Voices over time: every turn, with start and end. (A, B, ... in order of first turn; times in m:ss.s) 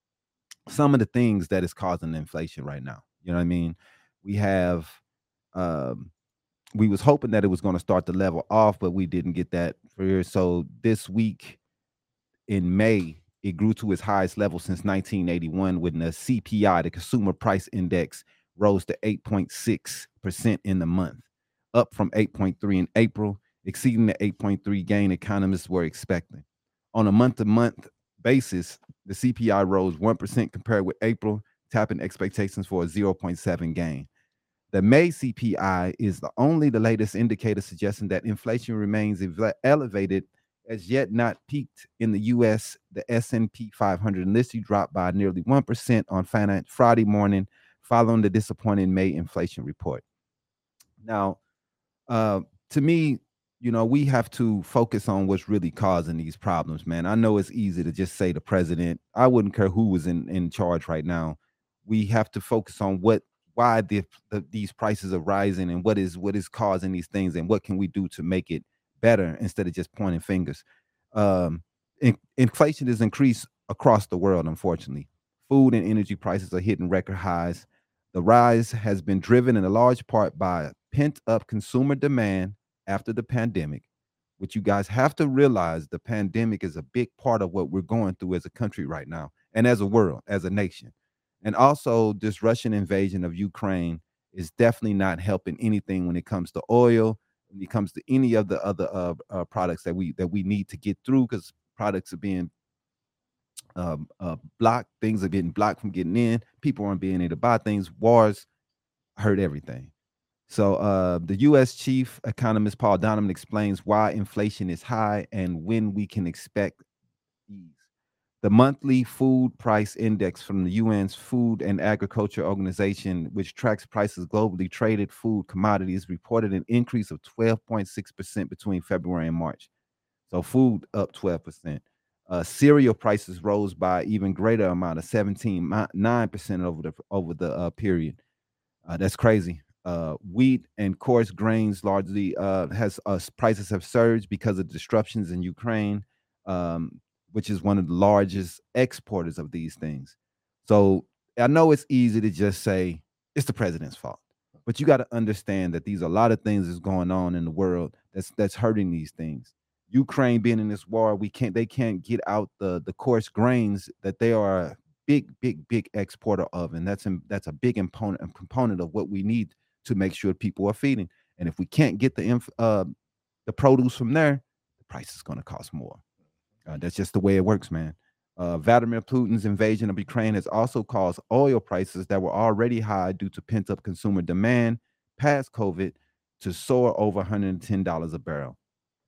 0:00.7-0:05.0 A
0:05.5-0:06.1 A
0:06.8-0:11.6 A
0:12.5-0:34.1 A
0:34.7-0:50.0 A
0:51.0-0:51.4 A
0:52.1-1:23.8 A
1:24.4-1:42.5 A
1:43.8-1:48.5 A
1:49.2-1:49.9 A
1:50.5-1:56.8 A
1:57.5-1:57.8 A
1:58.4-2:09.7 A
2:10.3-2:18.2 A
2:18.9-2:52.9 A
2:53.5-2:56.0 A
2:56.7-3:08.6 A